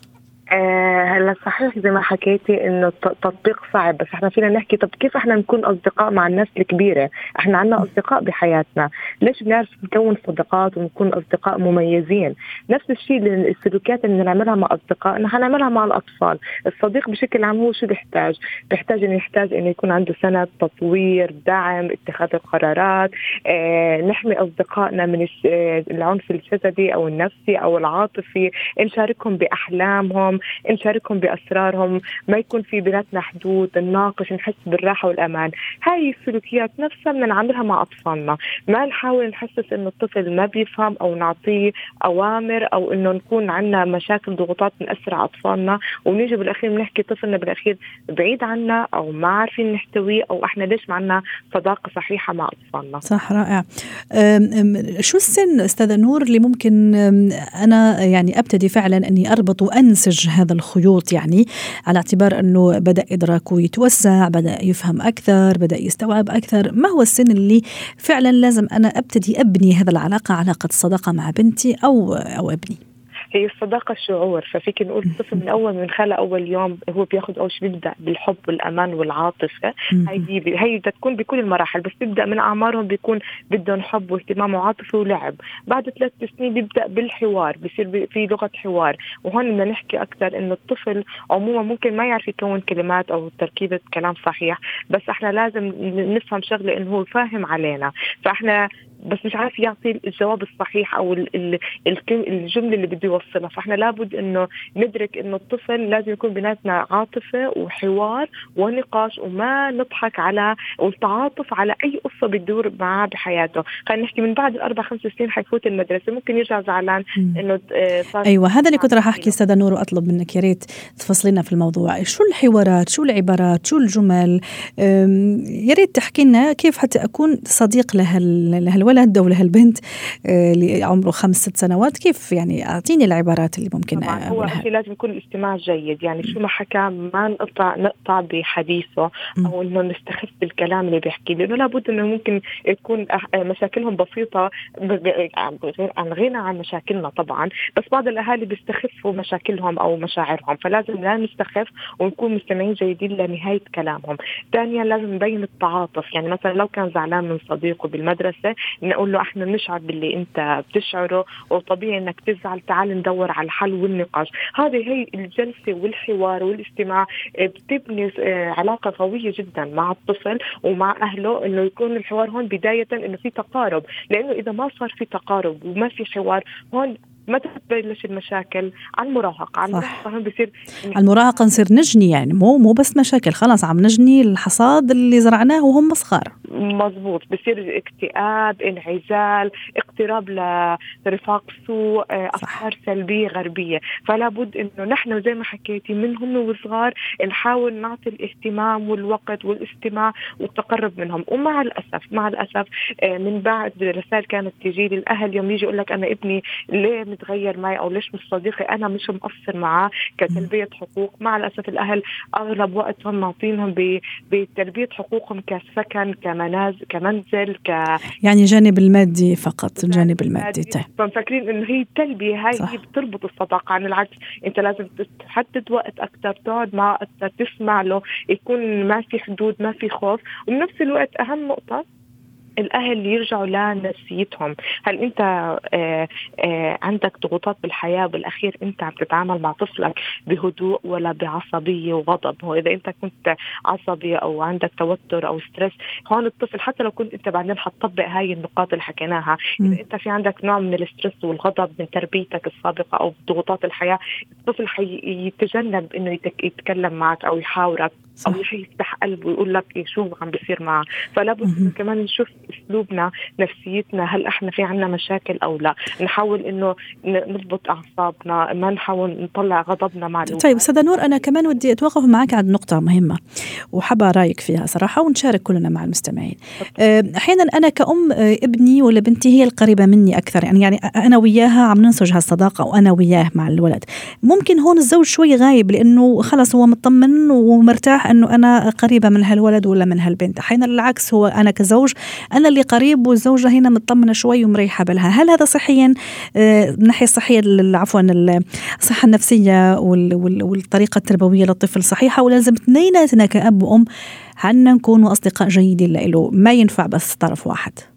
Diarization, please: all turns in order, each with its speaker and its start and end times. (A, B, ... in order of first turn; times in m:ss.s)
0:00.5-0:53.0 A
0:53.0-1:12.8 B
1:13.3-1:38.6 A
1:19.9-1:20.2 B
1:39.1-1:59.4 A
1:58.2-2:14.6 B
2:14.0-3:01.4 A
2:59.7-3:00.0 B
3:01.0-3:06.3 B
3:06.6-3:10.4 A
3:11.0-3:38.0 A
3:38.2-3:40.9 B
3:39.8-3:51.8 A
3:52.6-4:31.6 A
4:21.4-4:21.7 B
4:30.3-4:33.2 B
4:33.7-5:03.9 B
5:04.4-5:07.8 B